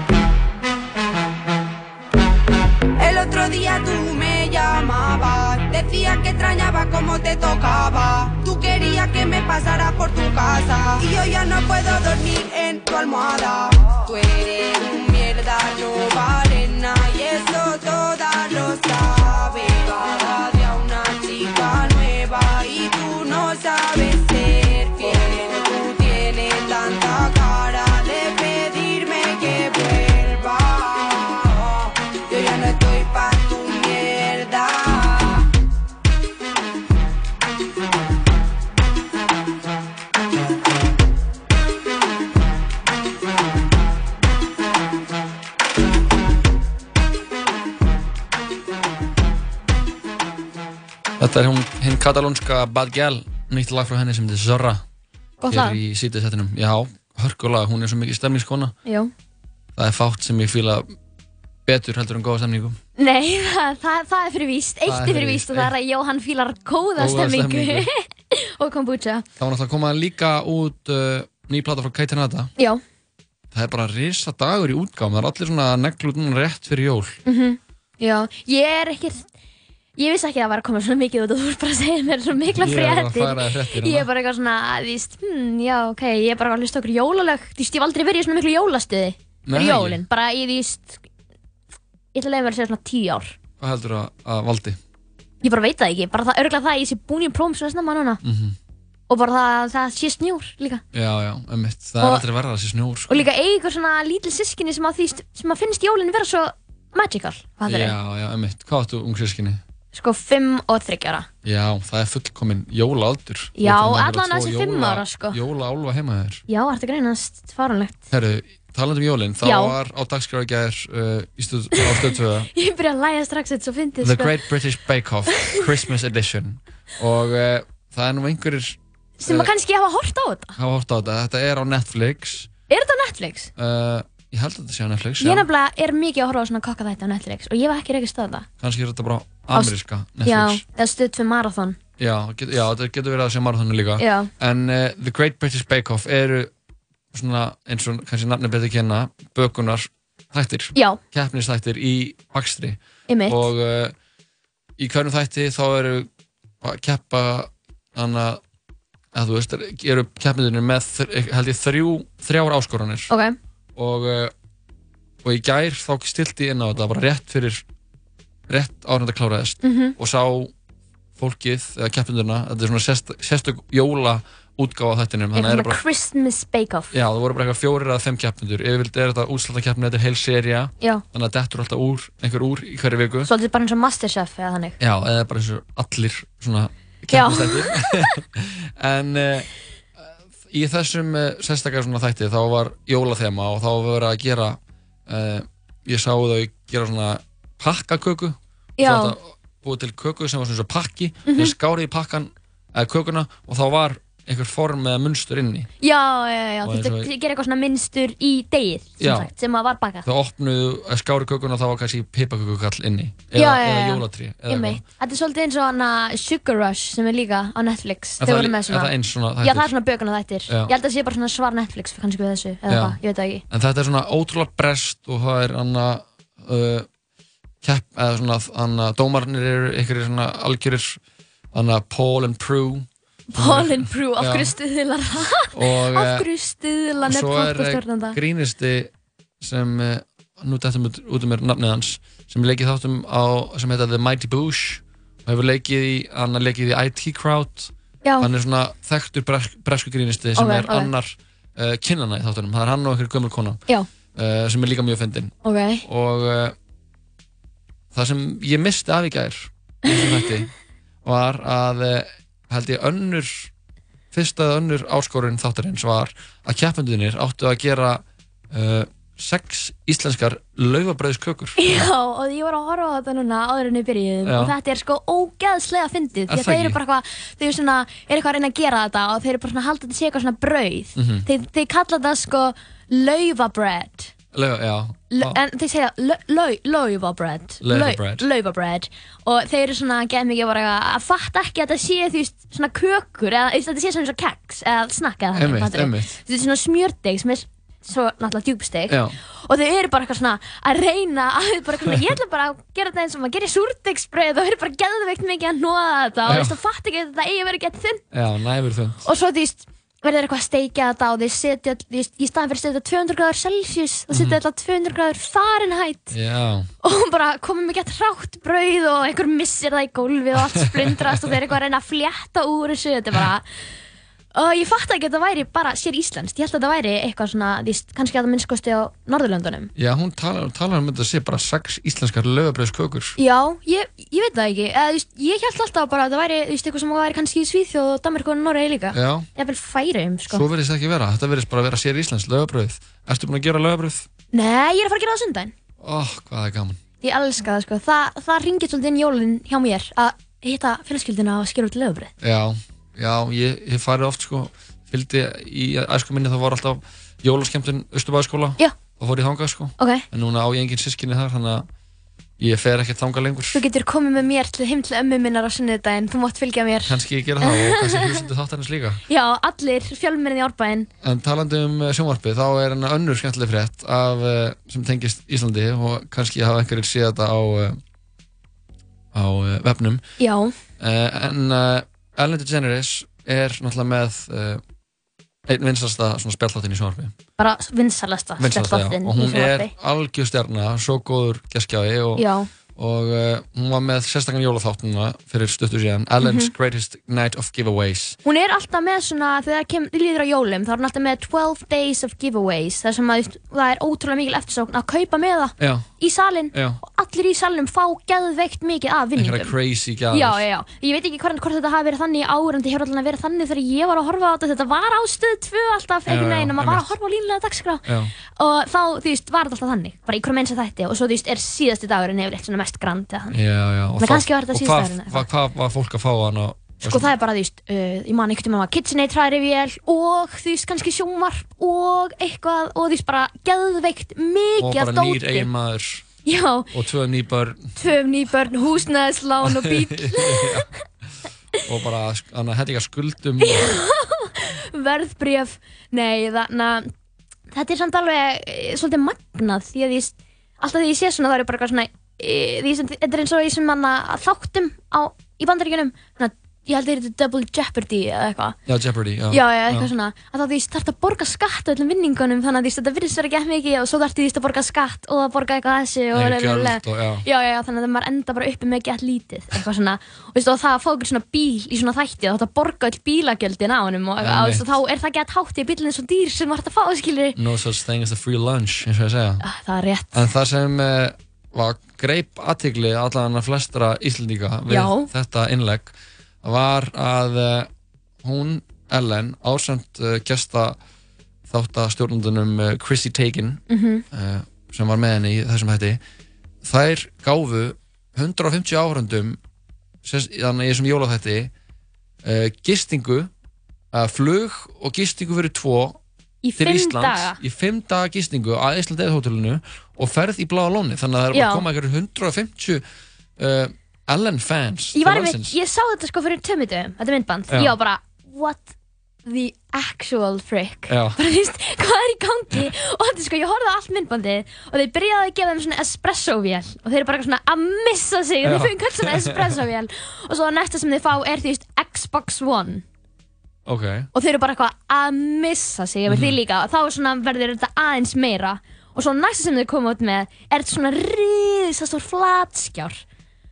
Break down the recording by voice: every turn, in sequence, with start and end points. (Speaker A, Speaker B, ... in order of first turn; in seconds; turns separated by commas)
Speaker A: 3.0-35.5, Speaker B: 51.2-54.8, Speaker C: 55.4-55.8, Speaker B: 55.5-58.8, Speaker C: 58.9-59.1, Speaker B: 59.8-60.9, Speaker B: 61.7-62.8, Speaker C: 63.0-69.2, Speaker B: 64.9-65.7, Speaker B: 67.0-67.9, Speaker B: 69.4-72.5, Speaker B: 73.5-77.2, Speaker C: 77.3-79.3, Speaker C: 80.0-91.0, Speaker B: 82.6-84.1, Speaker B: 89.5-90.0, Speaker C: 92.1-93.4, Speaker B: 93.6-94.8, Speaker C: 95.4-98.2, Speaker B: 98.2-98.6, Speaker C: 99.1-100.8, Speaker B: 100.9-103.3, Speaker C: 102.0-102.2, Speaker C: 103.1-108.0, Speaker B: 107.7-109.6, Speaker C: 109.9-111.3, Speaker B: 111.4-116.4, Speaker C: 113.6-115.4, Speaker C: 116.5-118.0, Speaker B: 118.1-122.5, Speaker C: 119.4-119.8, Speaker C: 121.8-124.3, Speaker B: 124.0-128.8, Speaker C: 129.2-130.6, Speaker B: 130.6-132.5, Speaker C: 132.7-133.5, Speaker B: 133.6-135.5, Speaker C: 135.2-138.5, Speaker B: 138.6-140.6, Speaker C: 140.2-141.8, Speaker B: 142.0-146.5, Speaker C: 144.0-144.3, Speaker B: 147.1-153.9, Speaker C: 153.1-153.4, Speaker B: 154.8-156.1, Speaker B: 156.6-158.4, Speaker B: 159.1-163.1, Speaker C: 163.1-163.3, Speaker B: 163.8-164.3, Speaker B: 165.2-167.6, Speaker B: 168.5-170.5, Speaker C: 169.6-169.9, Speaker B: 171.2-175.8, Speaker C: 175.3-176.9, Speaker B: 176.9-183.3, Speaker C: 183.2-184.8, Speaker B: 184.8-205.7, Speaker C: 187.1-187.8, Speaker C: 198.8-199.2, Speaker C: 201.3-201.5, Speaker C: 205.8-210.1, Speaker B: 206.7-207.1, Speaker B: 209.0-209.3, Speaker B: 210.1-214.8, Speaker C: 213.4-223.4, Speaker B: 218.2-219.7, Speaker B: 222.7-223.0, Speaker B: 223.5-226.9, Speaker B: 227.6-231.0, Speaker B: 231.5-234.6, Speaker C: 233.3-238.2, Speaker B: 235.5-236.3, Speaker B: 237.1-253.6, Speaker C: 250.4-250.9, Speaker B: 254.2-256.6, Speaker C: 255.4-255.8, Speaker B: 257.9-260.5, Speaker C: 259.9-260.3, Speaker B: 261.0-263.5, Speaker B: 264.1-271.6, Speaker C: 271.6-284.1, Speaker B: 274.2-274.5, Speaker B: 276.3-276.8, Speaker B: 281.0-281.3, Speaker B: 284.3-285.4, Speaker C: 285.1-308.0, Speaker B: 287.6-288.2, Speaker B: 295.4-296.2, Speaker B: 298.9-299.2, Speaker B: 306.3-306.6, Speaker B: 308.1-309.1, Speaker C: 309.1-316.1, Speaker B: 314.1-314.4, Speaker B: 316.1-316.7, Speaker C: 316.8-323.5, Speaker C: 324.4-329.7, Speaker B: 329.8-333.2, Speaker C: 333.2-340.4, Speaker B: 338.9-339.3, Speaker B: 340.3-344.1, Speaker C: 344.3-345.5, Speaker B: 345.8-346.8, Speaker C: 347.0-352.1, Speaker B: 352.2-361.7, Speaker C: 359.8-360.0, Speaker B: 362.4-363.6, Speaker C: 363.5-368.2, Speaker B: 366.9-369.0, Speaker C: 369.1-370.9, Speaker B: 371.0-377.8, Speaker B: 379.1-380.0, Speaker C: 380.2-380.6, Speaker B: 380.8-384.6, Speaker B: 385.5-387.1, Speaker C: 387.4-389.7, Speaker B: 388.4-398.2, Speaker C: 392.2-392.5, Speaker C: 396.2-396.5, Speaker C: 398.2-409.5, Speaker B: 405.6-405.9, Speaker B: 406.5-406.8, Speaker B: 409.2-410.4, Speaker C: 410.1-423.4, Speaker B: 416.1-416.9, Speaker B: 417.9-418.1, Speaker B: 423.3-427.1, Speaker C: 424.0-425.2, Speaker C: 426.8-435.5, Speaker B: 434.6-436.1, Speaker C: 436.2-436.7, Speaker B: 436.7-437.8, Speaker C: 437.8-440.7, Speaker B: 439.4-440.7, Speaker B: 441.6-443.8, Speaker C: 443.4-446.9, Speaker C: 447.5-458.6, Speaker B: 458.7-459.9, Speaker C: 459.3-477.4, Speaker B: 466.1-467.2, Speaker B: 474.2-474.7, Speaker B: 477.4-479.4, Speaker C: 479.4-480.2, Speaker B: 480.1-487.7, Speaker C: 484.7-485.1, Speaker B: 488.2-490.8, Speaker B: 491.5-496.0, Speaker C: 493.7-494.0, Speaker B: 496.6-499.4, Speaker B: 500.0-501.5, Speaker B: 502.2-503.3, Speaker B: 503.9-506.0, Speaker C: 506.4-507.4, Speaker B: 506.6-512.8, Speaker C: 511.3-511.6, Speaker B: 513.4-515.5, Speaker C: 515.0-518.7, Speaker B: 517.5-517.8, Speaker C: 519.3-532.8, Speaker B: 520.9-521.2, Speaker B: 528.4-529.4, Speaker B: 533.7-534.1, Speaker C: 534.1-543.0, Speaker B: 536.1-536.4